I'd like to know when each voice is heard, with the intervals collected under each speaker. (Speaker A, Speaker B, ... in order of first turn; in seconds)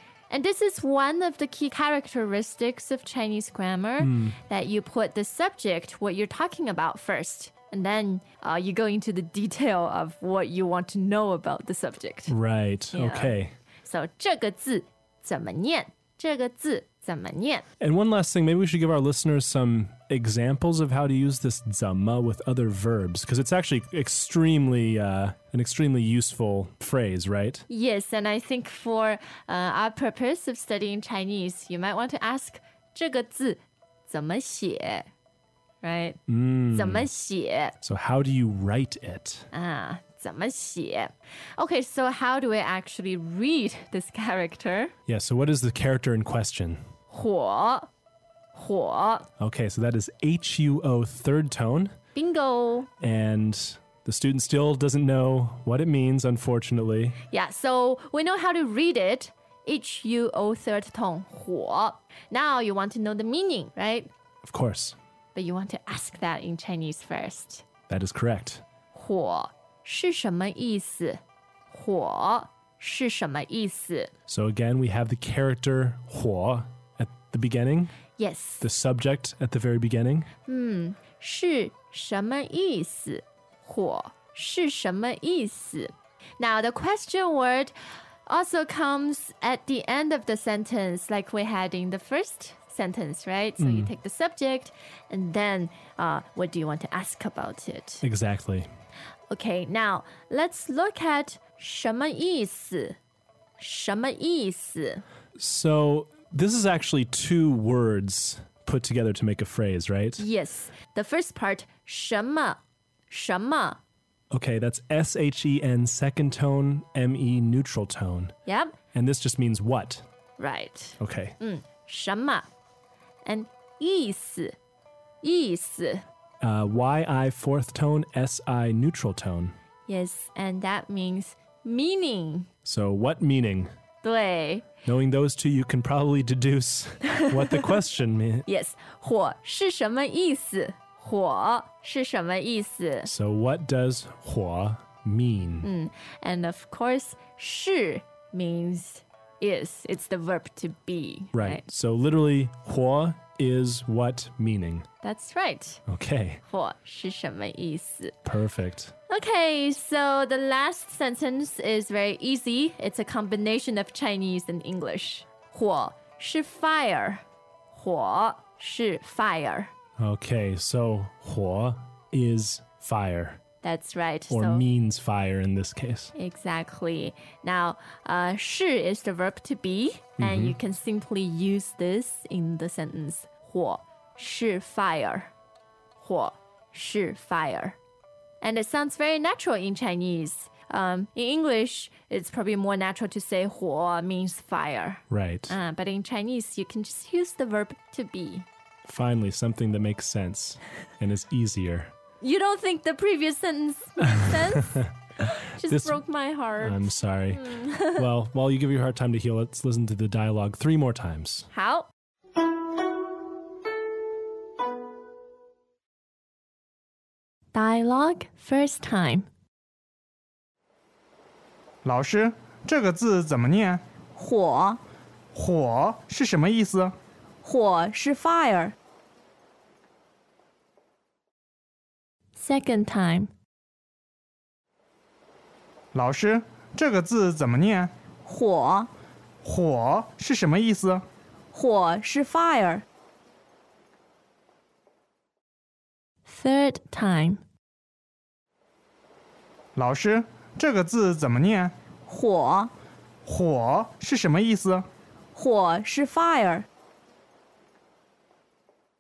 Speaker A: 0.3-12.3, 12.9-17.7, 27.7-35.1, 35.8-36.2, 36.7-37.8, 39.5-44.9, 47.1-47.9, 48.5-49.3, 52.1-52.9, 57.3-64.1, 65.3-67.6, 68.9-71.2, 71.7-74.1, 78.2-78.7, 80.5-87.7, 88.3-98.0, 99.3-103.0, 103.6-105.0, 110.2-113.8, 118.5-118.8, 120.4-122.5, 123.2-124.5, 125.2-126.0, 129.9-132.5, 134.0-134.7, 137.2-137.7, 138.5-143.1, 145.6-151.6, 155.0-155.8, 156.5-158.2, 159.1-169.7, 173.6-174.6, 176.2-185.3, 186.0-187.8, 188.4-198.5, 202.2-208.1, 211.5-211.9, 217.5-219.3, 232.4-233.3, 246.3-247.4
Speaker B: 4.0-4.4, 12.3-13.5, 17.8-27.6, 36.3-37.1, 37.8-39.5, 45.1-46.8, 49.4-51.9, 53.0-57.2, 64.4-65.0, 67.9-68.6, 74.3-78.0, 78.6-80.3, 93.6-93.9, 98.0-98.7, 105.4-110.2, 114.3-118.3, 118.9-120.0, 121.0-121.3, 126.4-129.6, 132.7-133.7, 134.9-138.4, 143.1-145.7, 151.3-154.9, 155.9-156.4, 158.2-158.9, 170.0-173.4, 174.3-176.1, 180.2-180.6, 195.1-195.6, 198.8-201.9, 204.2-204.9, 205.7-206.0, 206.6-211.5
Speaker C: 221.8-223.8, 225.3-226.9, 235.9-237.9, 239.4-241.0, 249.8-251.7, 253.3-254.9
Speaker D: 224.2-224.8, 227.4-228.7, 238.3-238.9, 241.5-242.8, 252.1-252.7, 255.4-256.6